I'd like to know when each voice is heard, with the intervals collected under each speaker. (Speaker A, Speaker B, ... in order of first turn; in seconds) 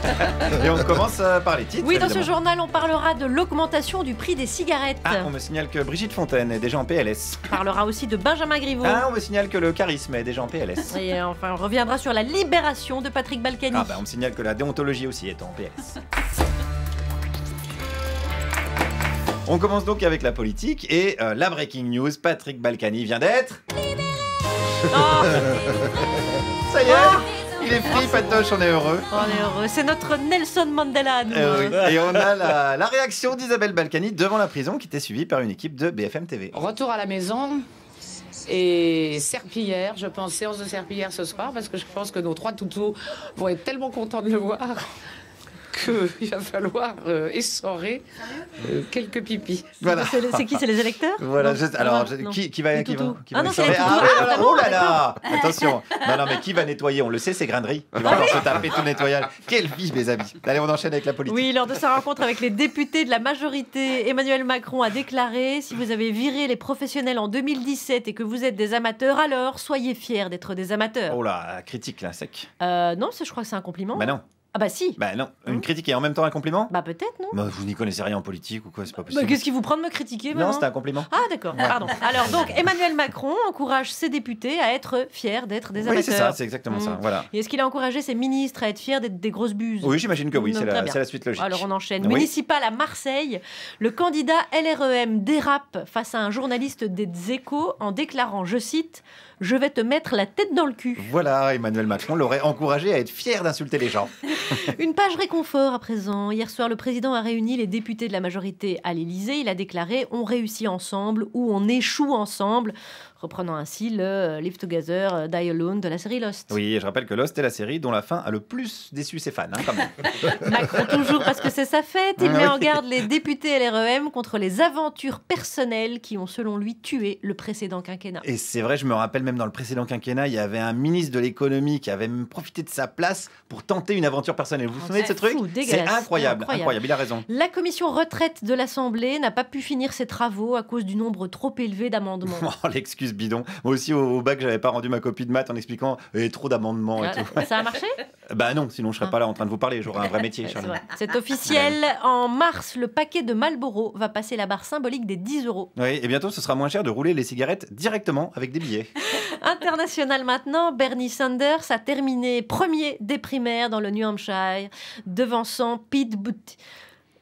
Speaker A: 0.3-2.3, 5.0-7.4, 8.8-11.0, 13.7-16.0, 19.4-23.6, 26.7-29.2, 31.3-36.5, 49.8-50.6, 51.2-61.5, 71.1-72.5, 73.9-74.2, 75.0-76.7, 77.3-79.4, 80.3-81.1, 81.6-81.8, 85.8-87.3, 89.8-92.3, 101.0-104.6, 116.5-120.9, 122.2-122.8, 128.2-137.2, 142.2-147.6, 148.3-150.8, 151.4-151.8, 155.8-158.9
Speaker B: 1.8-5.3, 7.5-9.0, 10.9-14.0, 24.8-25.9, 26.8-27.2, 27.9-28.4, 29.1-31.9, 49.8-55.0, 58.0-58.5, 61.3-71.2, 72.6-75.6, 76.7-77.4, 79.1-101.1, 104.3-116.5, 120.2-128.2, 134.8-142.5, 147.0-148.0, 150.5-155.7, 159.0-166.6
Speaker C: 36.5-37.6, 38.5-44.8, 45.7-49.8